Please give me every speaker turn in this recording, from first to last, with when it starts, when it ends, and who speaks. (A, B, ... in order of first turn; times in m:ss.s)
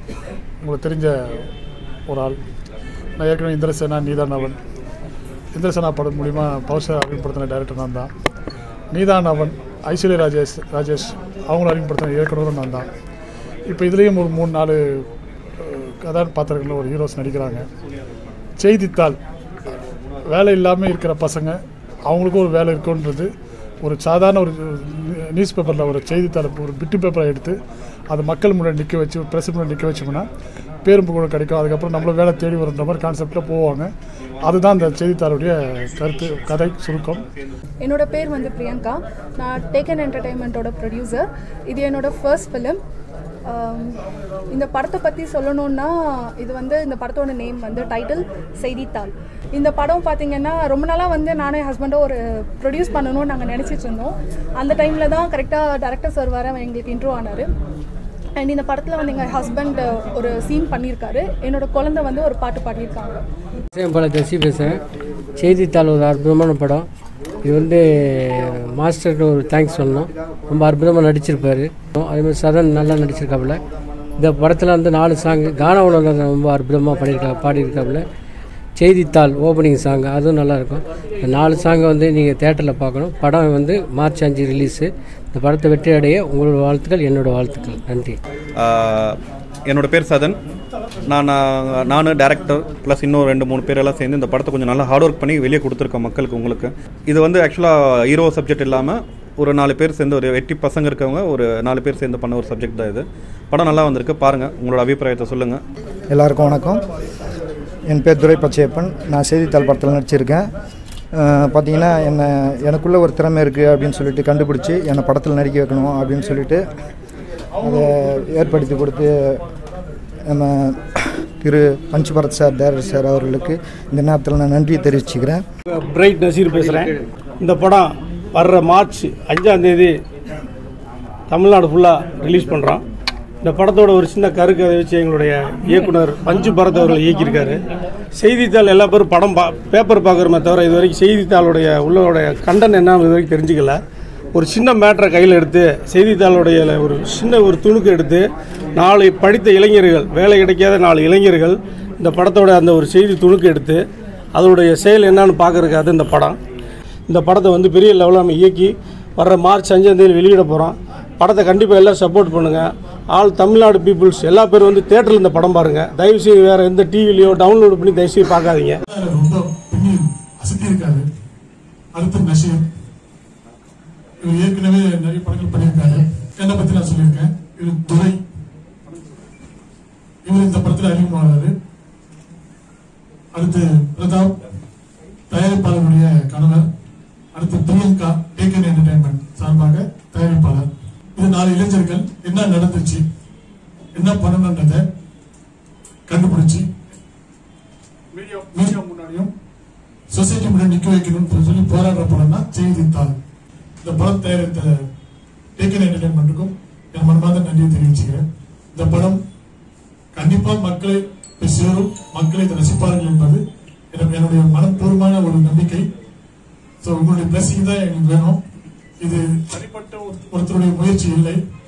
0:00.6-0:01.4 A
0:02.1-0:02.4 A
0:03.2-0:04.6 A
0:05.5-0:08.1 A
0:08.9-0:12.9 A
0:13.7-0:15.0 A
0:15.6-0:17.6 A
0:18.6-0:19.2 A
0:20.3-0:23.3 A
0:23.8-0:27.6 A
0:28.1-0:30.2 A
0:30.8-0:33.9 A
0:34.4-0:37.2 A
0:37.8-0:42.8 B
0:43.5-0:44.0 B
0:44.5-0:57.5 B
0:58.4-1:03.2 B
1:03.7-1:04.8 C
1:05.4-1:06.9 C
1:07.4-1:13.6 C
1:14.2-1:18.0 C
1:18.8-1:28.2 C
1:28.6-1:30.4 D
1:31.1-1:45.6 D
1:46.1-1:46.8 E
1:47.9-1:50.4 E
1:51.1-1:56.7 E
1:57.6-1:59.4 E
2:00.3-2:05.4 E
2:05.7-2:10.0 F
2:11.3-2:12.8 F
2:13.4-2:17.6 F
2:18.1-2:23.8 F
2:24.3-2:36.4 F
2:37.1-2:48.8 F
2:48.9-2:51.0 G
2:51.9-2:52.6 G
2:54.2-2:58.2 G
3:00.2-3:01.5 G
3:03.3-3:04.3 G
3:05.3-3:06.7 G
3:07.3-3:13.0 G
3:13.9-3:14.8 G
3:16.1-3:16.7 G
3:18.1-3:19.2 A
3:18.5-3:19.3 G
3:20.1-3:23.2 G
3:23.8-3:24.7 G
3:25.6-3:28.2 G
3:28.7-3:29.2 G
3:30.1-3:33.4 G
3:33.9-3:35.8 G
3:36.8-3:38.4 G
3:39.0-3:41.4 G
3:39.6-3:40.0 A